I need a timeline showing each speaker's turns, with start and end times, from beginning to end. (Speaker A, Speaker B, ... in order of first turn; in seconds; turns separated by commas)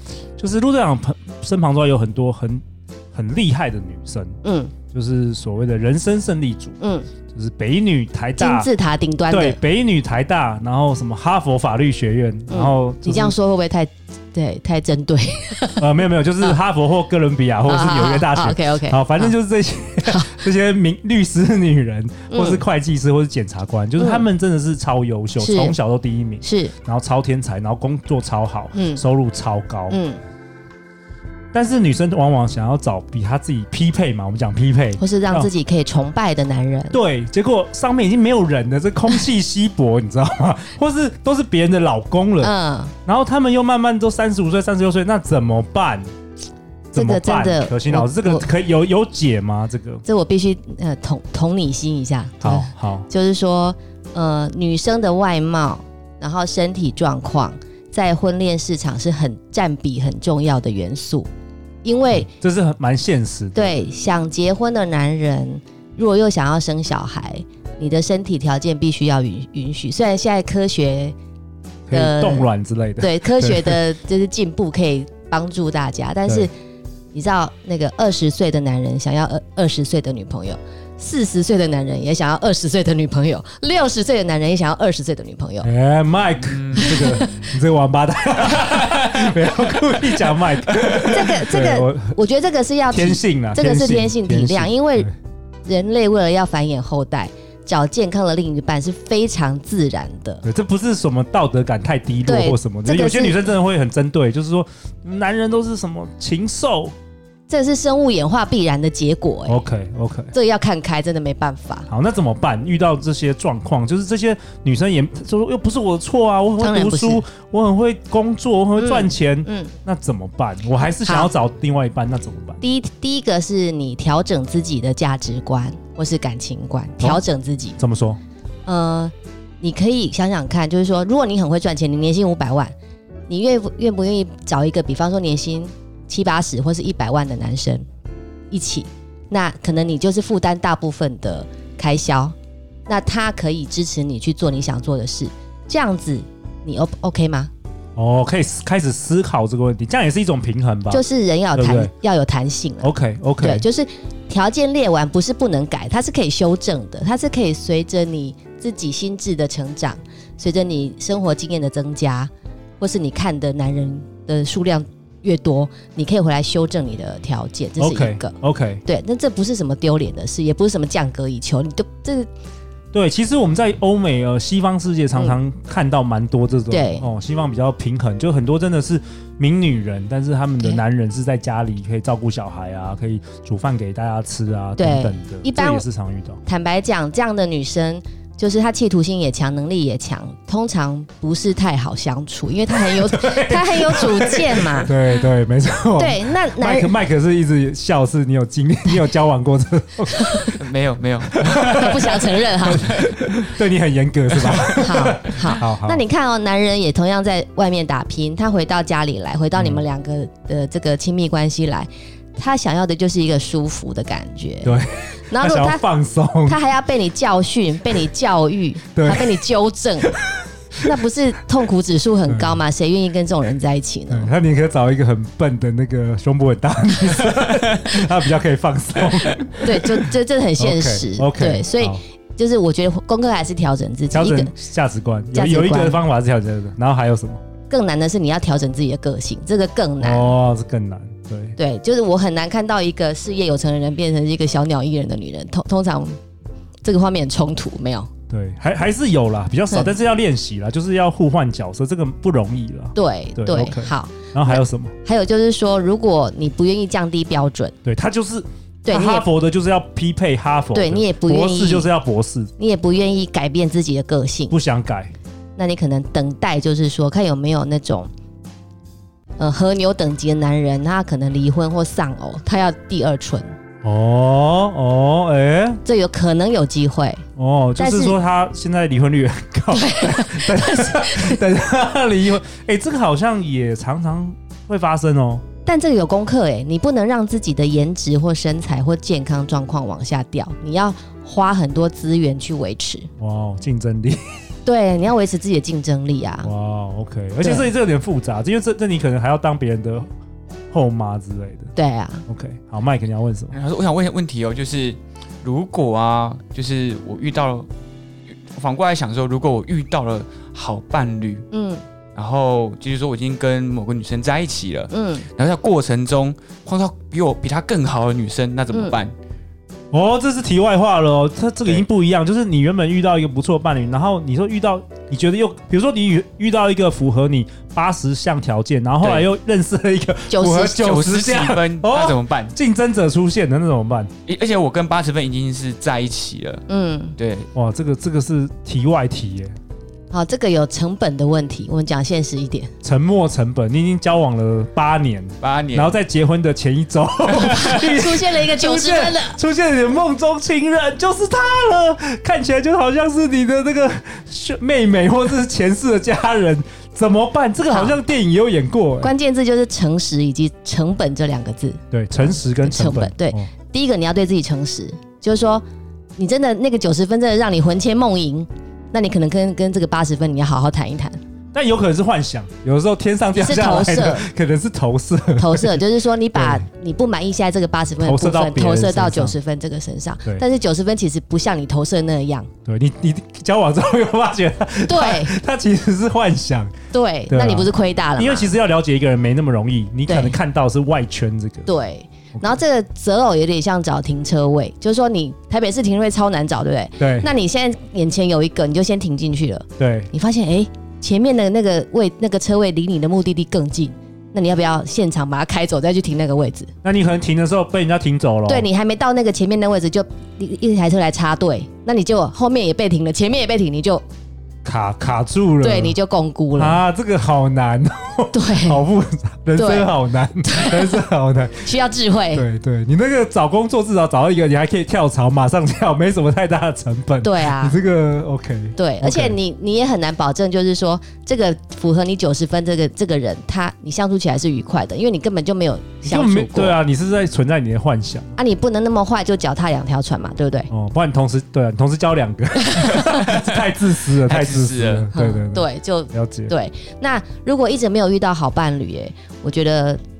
Speaker A: 0.4-4.4, Speaker B: 4.4-4.8, Speaker A: 4.9-6.8, Speaker B: 6.8-7.1, Speaker A: 7.3-8.7, Speaker B: 8.4-9.6, Speaker A: 9.3-13.4, Speaker B: 12.5-16.6, Speaker A: 15.8-30.0, Speaker B: 17.7-19.3, Speaker B: 20.0-20.4, Speaker B: 22.3-22.6, Speaker B: 24.0-24.3, Speaker B: 25.4-25.8, Speaker B: 26.4-26.8, Speaker B: 28.7-29.0, Speaker B: 29.9-30.2, Speaker A: 31.5-35.5, Speaker B: 35.0-37.0, Speaker A: 36.9-42.5, Speaker B: 42.4-42.9, Speaker A: 43.0-46.1, Speaker A: 46.9-50.0, Speaker B: 46.9-48.5, Speaker B: 50.0-61.3, Speaker A: 52.4-53.1, Speaker B: 61.8-62.3, Speaker A: 62.1-63.9, Speaker B: 63.5-71.1, Speaker A: 71.9-73.8, Speaker B: 71.9-76.5, Speaker B: 77.1-85.7, Speaker A: 85.6-92.2, Speaker C: 86.4-87.5, Speaker B: 86.8-87.4, Speaker C: 88.6-89.3, Speaker B: 91.1-95.1, Speaker A: 92.9-95.1, Speaker B: 95.7-100.4, Speaker A: 100.4-106.9, Speaker B: 102.2-103.5, Speaker B: 107.5-109.6, Speaker A: 109.5-110.3, Speaker B: 110.3-111.9, Speaker A: 111.9-122.6, Speaker B: 116.6-117.2, Speaker B: 118.8-119.7, Speaker B: 121.0-121.3, Speaker B: 122.6-127.8, Speaker A: 127.8-128.2, Speaker B: 128.7-132.7, Speaker B: 133.3-137.8, Speaker B: 138.5-142.3, Speaker B: 142.9-147.5, Speaker A: 147.9-151.0, Speaker B: 150.9-172.3, Speaker A: 151.5-151.9, Speaker A: 152.8-153.7, Speaker A: 167.8-168.8, Speaker A: 172.9-186.4, Speaker B: 176.7-177.1, Speaker B: 184.8-185.8, Speaker B: 186.4-195.0, Speaker A: 192.7-200.6, Speaker B: 195.9-197.0, Speaker B: 200.2-200.5, Speaker C: 200.6-203.4, Speaker A: 201.4-206.0, Speaker B: 201.7-203.0, Speaker C: 204.3-204.8, Speaker B: 204.8-215.8, Speaker A: 209.5-209.8, Speaker A: 214.6-216.6, Speaker B: 216.4-220.1, Speaker A: 218.9-219.4, Speaker A: 220.0-220.9, Speaker B: 220.8-224.3, Speaker A: 222.3-222.6, Speaker A: 224.1-232.0, Speaker B: 229.6-234.5, Speaker A: 234.1-237.4, Speaker B: 235.3-236.0, Speaker B: 237.7-240.3, Speaker A: 240.0-241.6, Speaker B: 241.6-246.2, Speaker B: 246.8-248.1, Speaker A: 248.3-254.9, Speaker B: 252.9-257.7, Speaker A: 257.8-262.5, Speaker B: 258.8-259.3, Speaker B: 260.7-261.9, Speaker B: 262.6-264.5, Speaker A: 264.5-265.1, Speaker B: 265.6-268.1, Speaker B: 269.4-273.6, Speaker A: 273.8-275.8, Speaker B: 275.8-277.2, Speaker A: 277.4-285.4, Speaker B: 277.8-278.2, Speaker B: 279.7-281.4, Speaker B: 285.6-293.1, Speaker A: 293.2-294.4, Speaker B: 294.6-296.5, Speaker A: 296.4-300.1, Speaker B: 297.4-297.7, Speaker A: 300.7-301.7, Speaker B: 301.8-302.2, Speaker A: 302.3-303.5, Speaker C: 303.5-307.7, Speaker C: 308.5-311.5, Speaker B: 311.5-311.8, Speaker C: 312.1-319.1, Speaker B: 314.9-315.3, Speaker B: 318.7-319.0, Speaker A: 319.9-334.1, Speaker C: 329.0-329.3, Speaker B: 330.3-330.9, Speaker C: 330.8-332.5, Speaker C: 334.2-336.6, Speaker B: 336.7-337.2, Speaker C: 337.2-337.5, Speaker A: 337.5-339.5, Speaker B: 340.1-342.7, Speaker A: 342.8-359.1, Speaker C: 345.4-346.0, Speaker B: 347.4-349.4, Speaker B: 357.7-358.0, Speaker B: 359.0-365.6, Speaker A: 361.9-363.5, Speaker B: 366.2-371.2, Speaker A: 371.5-376.6, Speaker B: 373.3-374.3, Speaker B: 375.4-382.5, Speaker A: 378.0-379.3, Speaker A: 382.6-386.7, Speaker B: 384.8-385.4, Speaker B: 386.9-388.5, Speaker A: 387.3-391.7, Speaker B: 390.1-390.4, Speaker B: 391.7-406.7, Speaker A: 392.3-392.6, Speaker A: 397.0-397.3, Speaker A: 399.8-400.1, Speaker A: 406.8-408.7, Speaker B: 408.5-414.0, Speaker A: 414.6-416.0, Speaker B: 415.6-416.8, Speaker A: 416.6-421.8, Speaker B: 418.3-418.9, Speaker B: 419.5-421.0, Speaker B: 421.6-422.5, Speaker A: 422.3-429.4, Speaker B: 427.2-427.8, Speaker B: 428.8-436.8, Speaker A: 436.0-438.3, Speaker B: 438.4-440.7, Speaker A: 440.7-446.5, Speaker B: 442.6-443.3, Speaker C: 443.3-445.1, Speaker B: 445.1-450.0